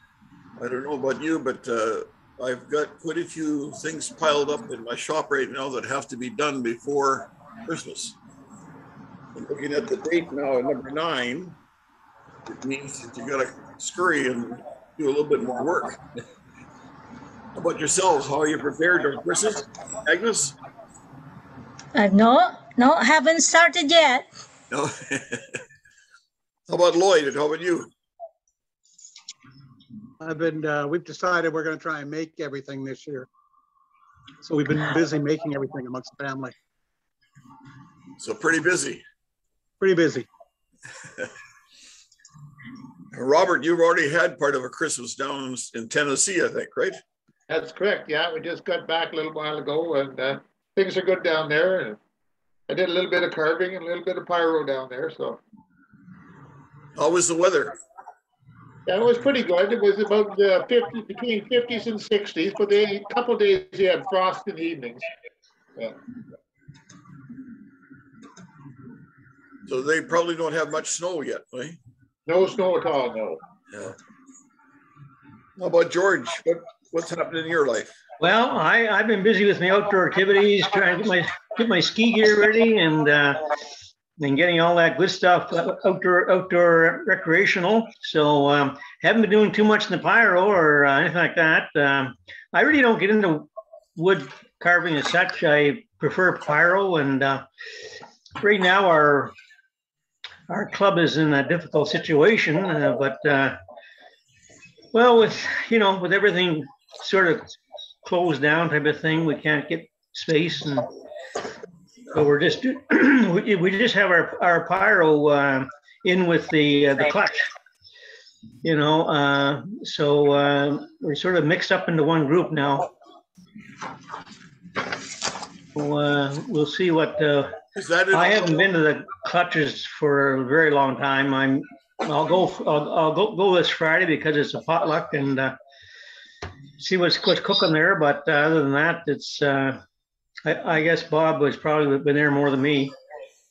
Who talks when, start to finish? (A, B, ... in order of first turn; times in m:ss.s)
0:00.6-0:08.2 A
0:09.3-0:11.6 A
0:12.4-0:16.0 A
0:17.5-0:20.6 A
0:21.9-0:24.2 B
0:24.7-0:25.6 A
0:26.7-0:27.9 A
0:30.2-0:33.3 C
0:34.4-0:36.5 C
0:38.2-0:39.0 A
0:39.8-0:40.3 C
0:41.0-0:41.3 A
0:43.1-0:47.0 A
0:47.5-0:52.0 D
0:52.7-0:55.4 D
0:57.0-0:57.8 A
0:58.8-1:05.1 D
1:09.7-1:11.8 A
1:12.3-1:13.4 D
1:13.7-1:14.0 A
1:15.6-1:18.0 A
1:18.2-1:23.4 E
1:24.2-1:37.4 E
1:38.4-1:39.3 E
1:40.5-1:43.6 E
1:44.9-1:47.5 E
1:48.0-1:50.9 E
1:52.1-1:57.5 E
1:58.6-2:02.9 E
2:05.7-2:07.5 E
2:07.8-2:08.6 A
2:08.1-2:15.5 E
2:16.8-2:19.8 E
2:20.4-2:22.9 E